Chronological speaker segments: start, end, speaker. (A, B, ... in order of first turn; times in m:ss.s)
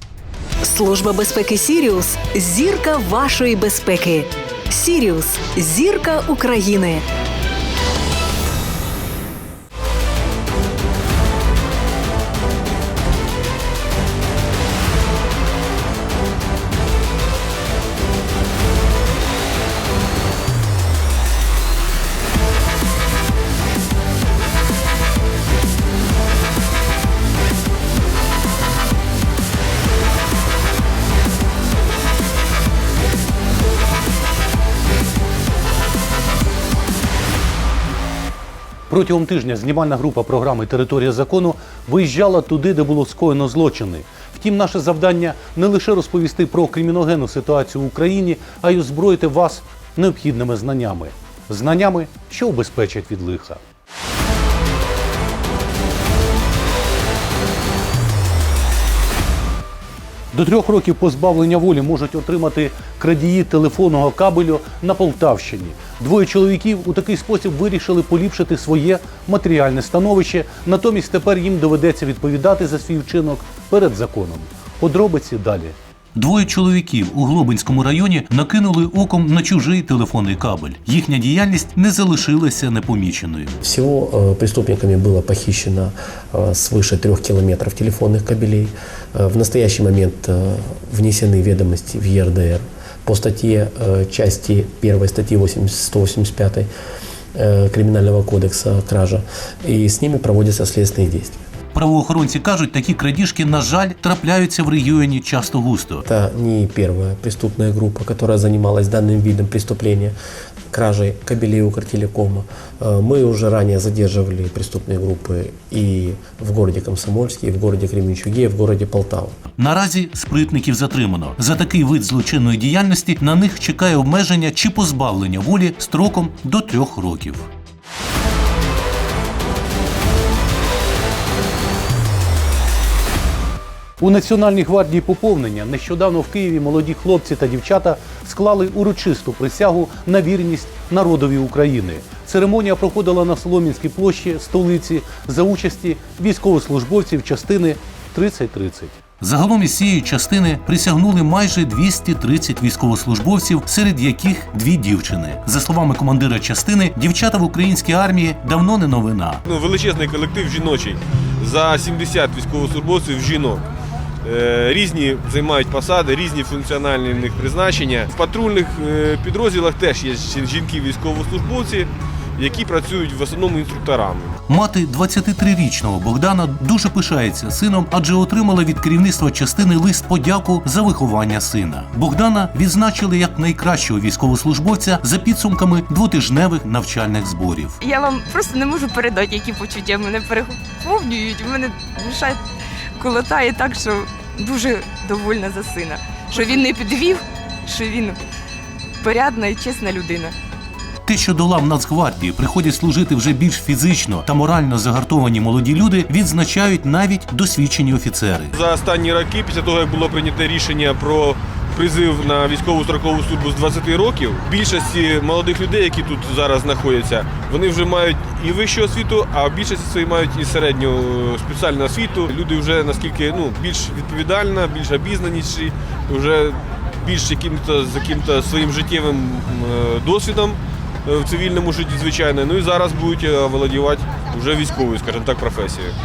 0:00.6-0:07.0 A
0:38.9-0:53.6 B
1:00.3-1:23.6 B
1:23.6-1:36.7 C
1:37.3-1:41.4 C
1:41.7-1:46.0 B
1:46.0-1:50.1 C
1:50.7-1:59.4 C
1:59.6-2:07.5 B
2:14.0-2:39.4 B
2:39.4-2:43.6 D
2:44.2-2:54.4 D
2:54.5-3:07.8 B
3:07.8-3:12.4 E
3:13.0-3:18.2 E
3:19.0-3:20.3 E
3:21.0-3:28.5 B
3:28.5-3:55.9 D